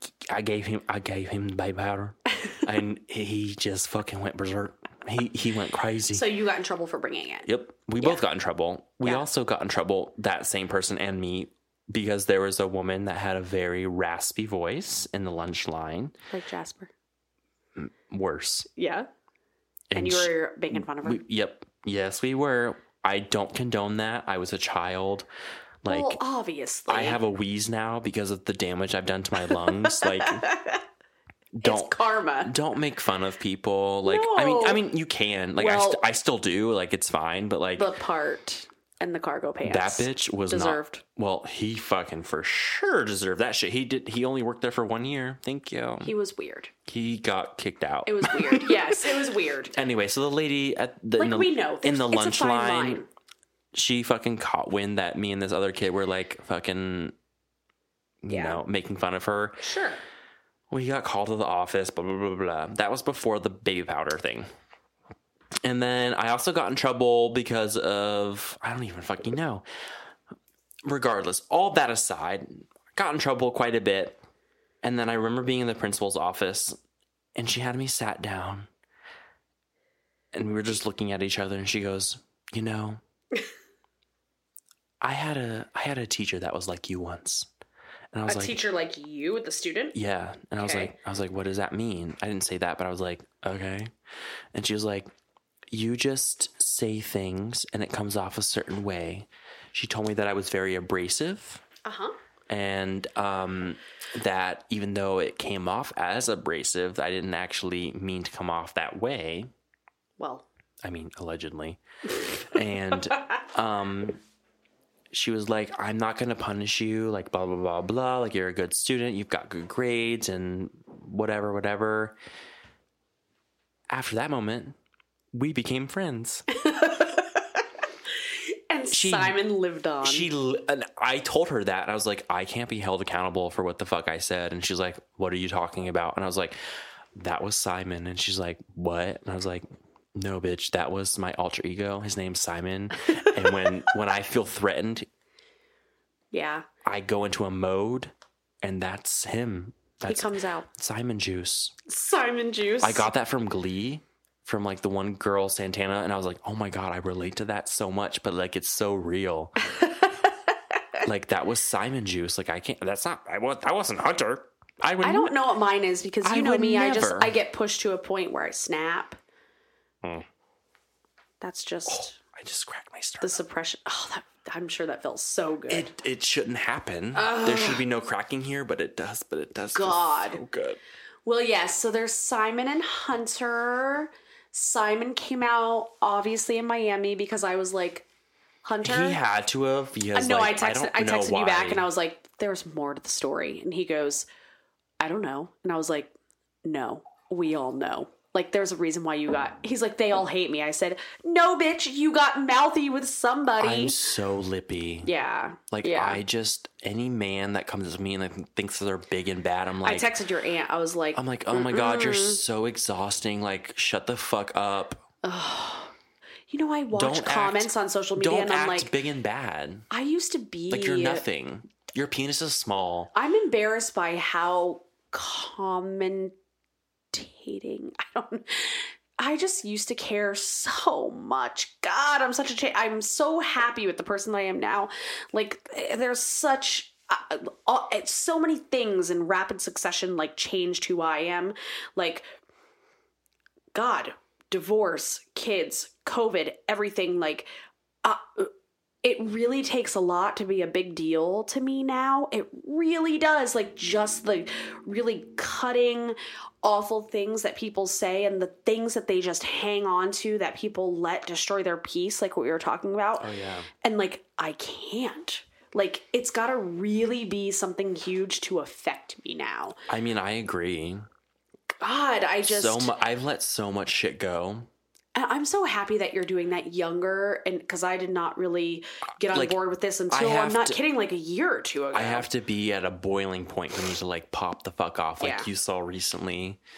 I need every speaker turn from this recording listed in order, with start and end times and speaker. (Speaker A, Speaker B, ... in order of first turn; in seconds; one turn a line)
Speaker A: 0.2-6.2
Speaker B: 6.1-7.5
Speaker A: 7.5-16.1
Speaker B: 16.3-16.9
Speaker A: 17.8-18.7
Speaker B: 18.7-19.1
Speaker A: 19.9-25.3
Speaker B: 19.9-21.2
Speaker A: 25.8-26.2
Speaker B: 25.9-27.2
Speaker A: 26.9-30.5
Speaker B: 29.5-30.8
Speaker A: 31.5-37.9
Speaker B: 31.6-32.5
Speaker B: 34.0-34.8
Speaker B: 35.6-36.0
Speaker B: 37.8-41.0
Speaker A: 39.6-46.1
Speaker B: 46.0-46.7
Speaker A: 46.9-53.0
Speaker B: 48.0-49.7
Speaker B: 51.2-53.1
Speaker A: 53.7-57.1
Speaker A: 58.2-59.6
Speaker B: 58.3-58.6
Speaker B: 59.6-60.0
Speaker A: 60.7-64.5
Speaker A: 65.6-69.6
Speaker A: 70.8-74.2
Speaker A: 74.8-76.8
Speaker A: 77.3-78.7
Speaker A: 80.3-83.0
Speaker A: 85.0-87.5
Speaker A: 88.1-88.6
Speaker B: 88.2-90.0
Speaker A: 89.9-93.9
Speaker B: 90.6-90.9
Speaker A: 94.5-95.1
Speaker A: 95.7-101.6
Speaker B: 101.8-102.2
Speaker A: 102.5-109.5
Speaker B: 110.2-110.5
Speaker A: 110.8-111.8
Speaker A: 112.3-114.2
Speaker A: 115.1-122.2
Speaker A: 123.9-124.8
Speaker A: 125.3-126.4
Speaker B: 126.5-127.6
Speaker B: 128.7-130.3
Speaker A: 128.9-129.4
Speaker A: 130.0-136.6
Speaker A: 137.1-145.1
Speaker B: 143.2-143.5
Speaker B: 146.3-146.6
Speaker A: 146.8-151.7
Speaker B: 150.1-150.7
Speaker B: 151.9-153.1
Speaker A: 152.8-159.5
Speaker B: 159.7-161.0
Speaker A: 161.0-165.3
Speaker B: 165.0-169.2
Speaker A: 166.2-167.4
Speaker B: 171.4-172.2
Speaker A: 171.9-173.4
Speaker B: 173.2-175.9
Speaker A: 175.7-180.8
Speaker B: 177.1-177.8
Speaker B: 179.7-180.4
Speaker B: 181.2-188.1
Speaker B: 188.6-189.2
Speaker A: 188.8-191.9
Speaker B: 190.1-194.3
Speaker B: 195.0-196.1
Speaker B: 196.6-204.1
Speaker A: 203.6-205.1
Speaker B: 205.0-206.2
Speaker A: 205.7-210.1
Speaker B: 209.8-212.4
Speaker A: 211.1-215.0
Speaker B: 215.2-215.9
Speaker B: 216.5-218.9
Speaker A: 216.9-219.9
Speaker B: 219.9-221.2
Speaker A: 220.7-223.1
Speaker B: 223.1-226.3
Speaker B: 227.1-242.2
Speaker B: 243.7-247.5
Speaker B: 248.0-248.5
Speaker B: 249.0-263.3
Speaker A: 263.2-263.7
Speaker B: 263.8-269.8
Speaker A: 269.9-271.1
Speaker B: 271.8-272.9
Speaker A: 272.4-274.7
Speaker B: 275.1-282.3
Speaker A: 279.3-279.6
Speaker A: 280.1-280.8
Speaker A: 281.9-286.6
Speaker B: 285.2-285.5